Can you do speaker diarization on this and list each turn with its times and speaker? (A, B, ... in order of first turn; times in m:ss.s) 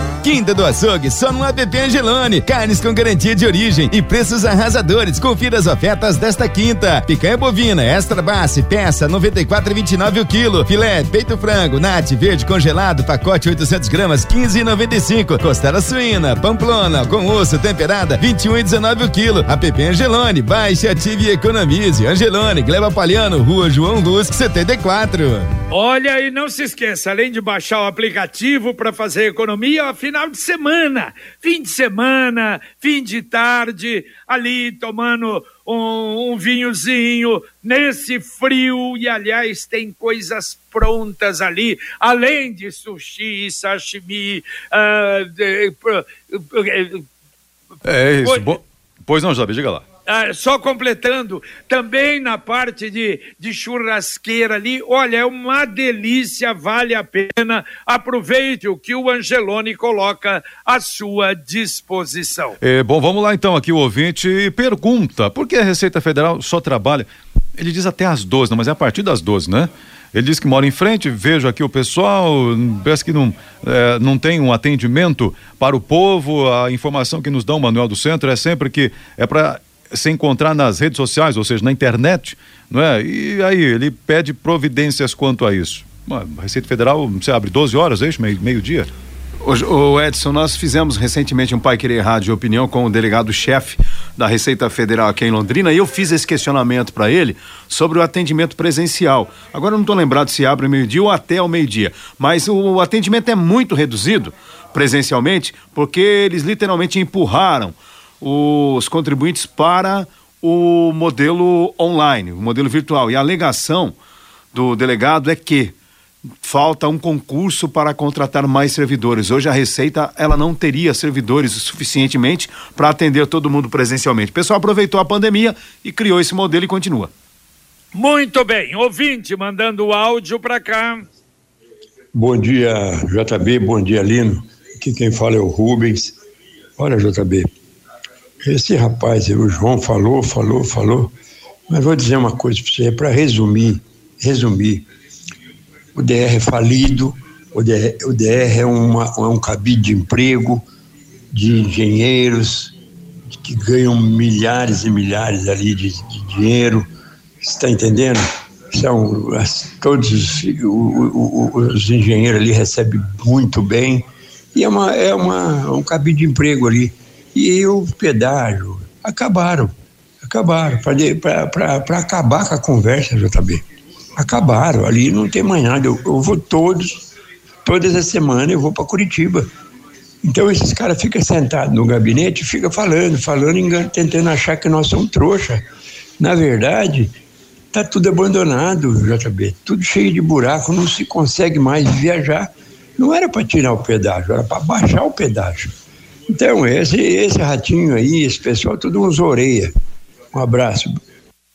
0:00.2-0:25.5 A
0:25.7-0:47.0 B
0:47.8-0:49.8 C
0:48.2-0:48.6 B
0:50.1-1:02.6 B
1:02.6-1:28.9 C
1:29.4-1:54.0 D
1:54.5-1:55.8 D
1:56.4-2:07.1 D
2:07.9-2:11.1 B
2:12.1-2:16.2 E
2:16.8-2:17.5 E
2:18.4-2:21.1 E
2:21.7-2:24.9 E
2:26.0-2:30.6 E
2:31.3-2:32.7 E
2:33.3-2:36.9 E
2:37.4-2:53.6 E
2:54.2-2:57.1 E
2:57.6-2:59.5 E
3:00.2-3:05.6 E
3:06.2-3:07.1 E
3:07.7-3:15.7 E
3:16.3-3:19.7 E
3:20.3-3:21.0 E